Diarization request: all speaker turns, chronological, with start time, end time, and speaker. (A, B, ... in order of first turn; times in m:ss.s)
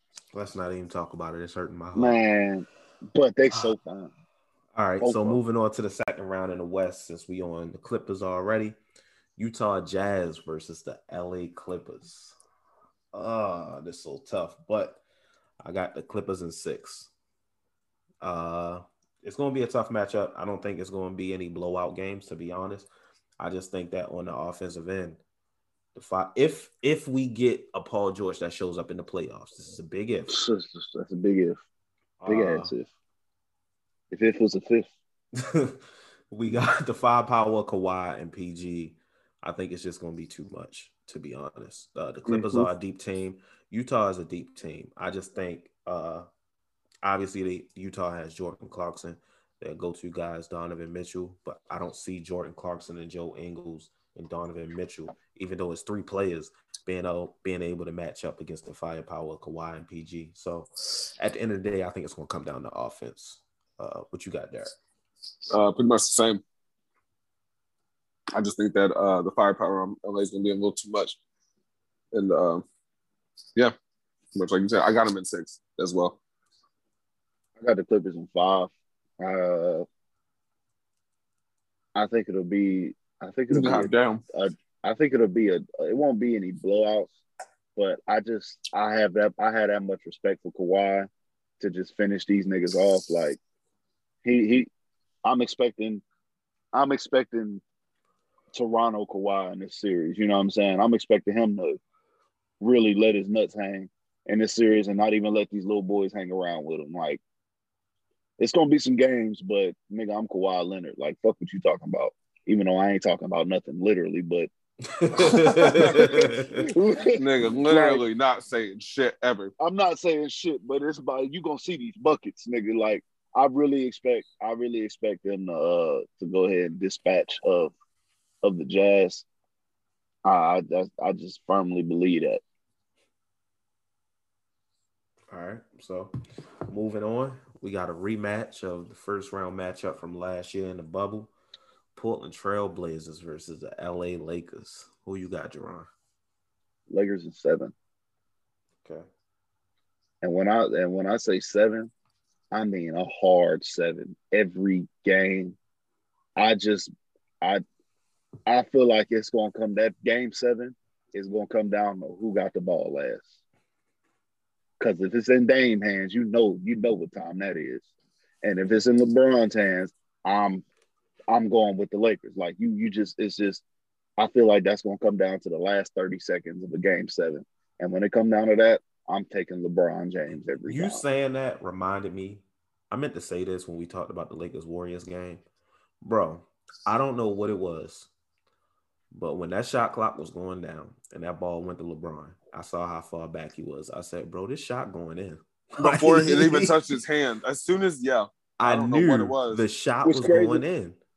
0:00.3-0:02.2 A
0:02.0-0:04.1 B
0:04.8-0:08.8 A
0:05.0-0:05.4 B
0:09.4-0:12.4 A
0:13.1-0:15.0 A
0:15.6-0:17.1 A
0:18.2-0:22.9 A
0:23.4-0:25.2 A
0:26.0-0:30.4 A
0:30.3-0:31.6 B
0:32.2-0:32.7 A
0:32.3-0:32.9 B
0:34.1-0:34.9 B
0:35.4-0:35.8 A
0:36.3-0:46.3 A
0:42.3-0:42.7 C
0:47.0-1:04.7 A
1:05.5-1:06.4 C
1:08.3-1:11.2 C
1:12.1-1:12.6 C
1:14.4-1:16.2 C
1:17.6-1:19.9 B
1:22.0-1:27.2 B
1:23.5-1:24.2 C
1:27.8-1:31.1 B
1:31.6-1:33.4 B
1:34.2-1:34.7 B
1:35.2-1:36.0 B
1:36.7-1:37.6 B
1:38.5-1:41.8 B
1:42.6-1:47.2 B
1:48.4-1:54.5 B
1:54.9-1:56.6 A
1:55.4-1:56.0 C
1:55.6-1:58.0 B
1:57.0-1:59.5 C
1:59.6-2:07.7 B
2:08.4-2:09.3 B
2:10.2-2:12.4 B
2:15.3-2:16.1 A
2:16.7-2:21.3 A
2:22.0-2:25.9 A
2:26.9-2:27.7 B
2:30.2-2:31.9 B
2:32.5-2:35.6 B
2:36.4-2:36.9 B
2:38.5-2:43.3 B
2:44.8-2:47.8 B
2:48.4-2:50.6 B
2:51.3-2:53.6 B
2:54.2-3:01.0 B
3:00.3-3:05.4 A
3:06.0-3:08.1 A
3:09.1-3:16.8 A
3:15.8-3:19.6 C
3:18.6-3:21.0 A
3:20.0-3:20.6 B